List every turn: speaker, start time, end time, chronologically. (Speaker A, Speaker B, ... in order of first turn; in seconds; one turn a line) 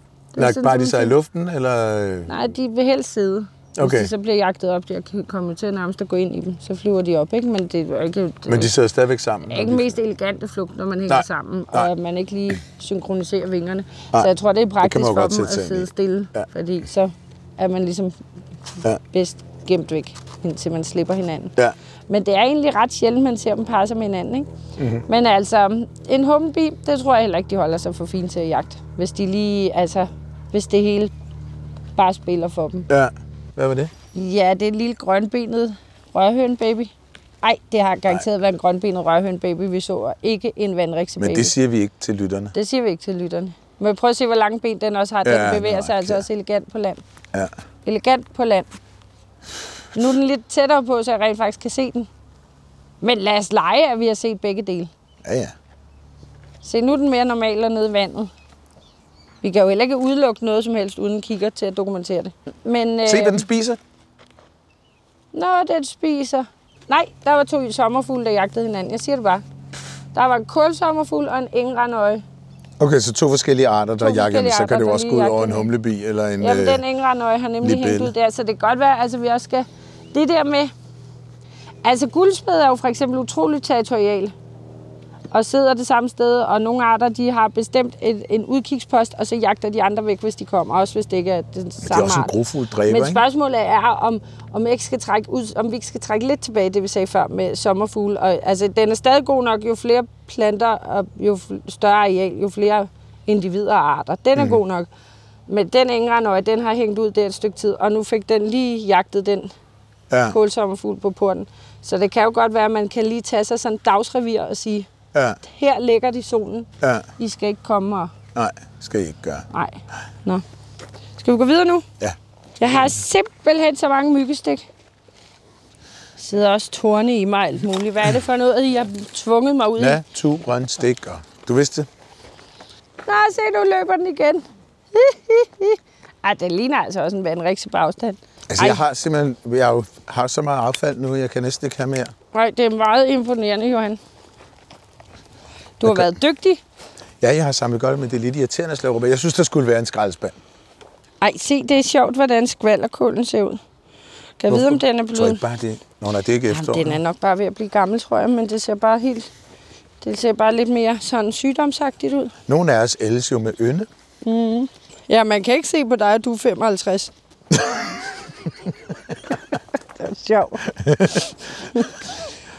Speaker A: 0.3-1.1
Speaker B: 0.4-2.4
Speaker A: 2.3-8.7
Speaker B: 3.8-4.1
Speaker B: 8.5-10.0
Speaker A: 9.5-18.2
Speaker B: 11.1-11.9
Speaker B: 14.8-16.4
Speaker A: 19.0-21.6
Speaker A: 22.1-24.5
Speaker B: 24.8-25.0
Speaker A: 25.1-31.1
Speaker A: 31.9-32.9
Speaker B: 32.9-33.9
Speaker A: 34.1-41.5
Speaker B: 41.2-42.5
Speaker A: 42.5-47.0
Speaker B: 45.2-46.2
Speaker A: 47.8-48.7
Speaker A: 49.9-52.1
Speaker A: 53.0-54.9
Speaker B: 55.2-55.5
Speaker A: 56.6-58.3
Speaker A: 59.4-63.4
Speaker B: 63.0-63.8
Speaker A: 65.3-69.4
Speaker A: 70.1-72.2
Speaker B: 72.8-76.8
Speaker A: 74.0-75.7
Speaker A: 76.4-80.7
Speaker B: 77.6-78.1
Speaker A: 81.8-84.3
Speaker A: 85.3-92.3
Speaker B: 91.8-93.2
Speaker A: 92.9-104.9
Speaker A: 105.5-109.5
Speaker B: 110.1-110.3
Speaker A: 110.3-114.9
Speaker B: 115.1-115.4
Speaker A: 115.4-118.1
Speaker B: 116.8-117.1
Speaker B: 118.3-119.5
Speaker A: 119.5-120.4
Speaker A: 121.2-121.9
Speaker B: 122.0-123.0
Speaker A: 122.6-124.7
Speaker A: 126.2-130.0
Speaker B: 129.8-131.9
Speaker A: 133.1-138.8
Speaker B: 138.5-142.1
Speaker A: 142.3-144.0
Speaker A: 145.8-146.6
Speaker B: 145.8-146.1
Speaker B: 147.2-150.4
Speaker A: 151.2-153.6
Speaker A: 154.4-155.4
Speaker B: 154.5-157.0
Speaker A: 156.5-159.3
Speaker A: 160.0-162.3
Speaker B: 162.5-163.9
Speaker A: 164.2-167.1
Speaker B: 167.5-168.0
Speaker A: 169.9-170.7
Speaker B: 170.7-171.8